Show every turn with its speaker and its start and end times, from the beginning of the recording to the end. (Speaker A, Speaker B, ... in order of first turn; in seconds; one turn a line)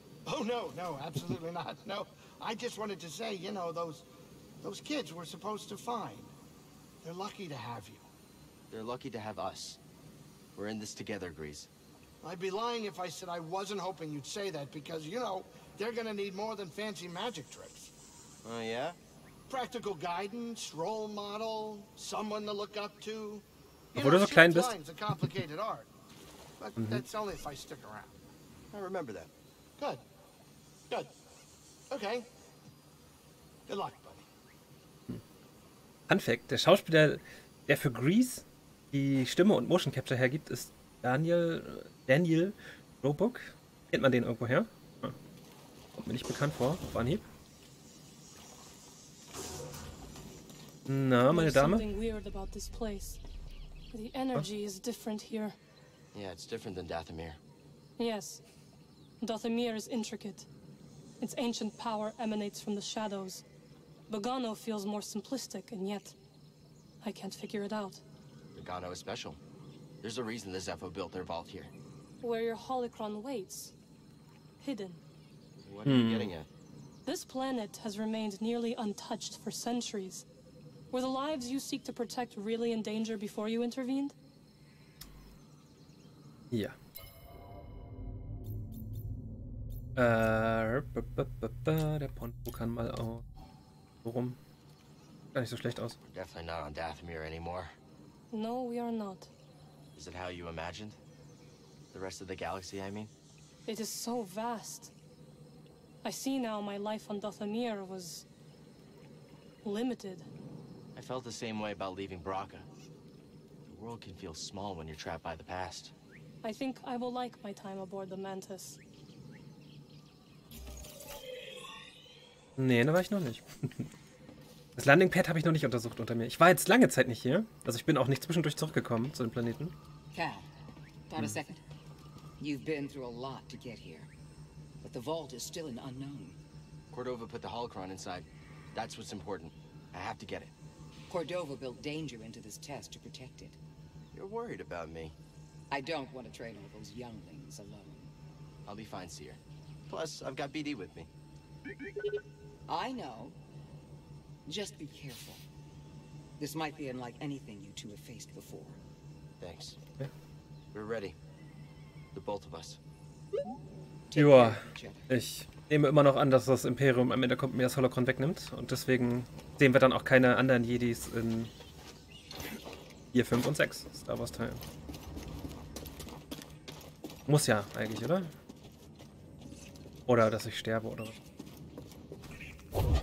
Speaker A: 0.2-4.0
Speaker A: 4.6-6.3
Speaker A: 7.0-8.1
Speaker B: 8.7-9.8
Speaker B: 10.5-11.7
Speaker A: 12.2-17.9
Speaker B: 18.4-19.0
Speaker A: 19.5-25.9
Speaker C: 23.9-24.7
Speaker A: 26.6-28.2
Speaker B: 28.7-29.3
Speaker A: 29.8-30.0
Speaker A: 31.9-32.3
Speaker A: 33.7-34.3
Speaker C: 36.1-45.1
Speaker C: 45.9-47.2
Speaker C: 50.9-51.9
Speaker D: 51.3-53.2
Speaker D: 53.9-55.6
Speaker B: 56.1-57.4
Speaker D: 58.0-58.4
Speaker D: 59.2-60.5
Speaker D: 61.2-63.4
Speaker D: 64.1-66.1
Speaker D: 67.0-68.0
Speaker B: 68.5-69.4
Speaker B: 70.0-71.7
Speaker D: 72.2-73.7
Speaker D: 74.6-75.0
Speaker B: 75.6-76.5
Speaker C: 75.8-76.3
Speaker D: 77.0-80.2
Speaker D: 80.9-84.2
Speaker C: 86.5-86.8
Speaker C: 90.0-93.2
Speaker C: 94.0-94.4
Speaker C: 95.3-96.0
Speaker B: 96.0-97.7
Speaker D: 98.3-99.3
Speaker B: 99.9-101.0
Speaker B: 101.9-103.1
Speaker D: 103.7-104.9
Speaker D: 106.0-108.2
Speaker D: 109.6-110.3
Speaker B: 110.9-112.7
Speaker B: 113.7-115.9
Speaker D: 116.4-118.8
Speaker C: 122.6-123.9
Speaker C: 124.8-129.7
Speaker E: 130.1-130.5
Speaker E: 131.1-131.6
Speaker E: 132.4-134.1
Speaker E: 134.8-136.4
Speaker B: 136.9-140.5
Speaker E: 141.1-143.6
Speaker B: 144.1-145.2
Speaker E: 145.7-148.1
Speaker B: 148.7-151.1
Speaker E: 152.7-153.4
Speaker E: 154.4-155.4
Speaker E: 156.4-158.8
Speaker B: 159.4-159.8
Speaker B: 160.7-161.2
Speaker B: 162.1-162.8
Speaker E: 164.1-165.1
Speaker C: 164.1-171.5
Speaker C: 173.1-174.6
Speaker C: 177.3-178.3
Speaker C: 180.1-181.2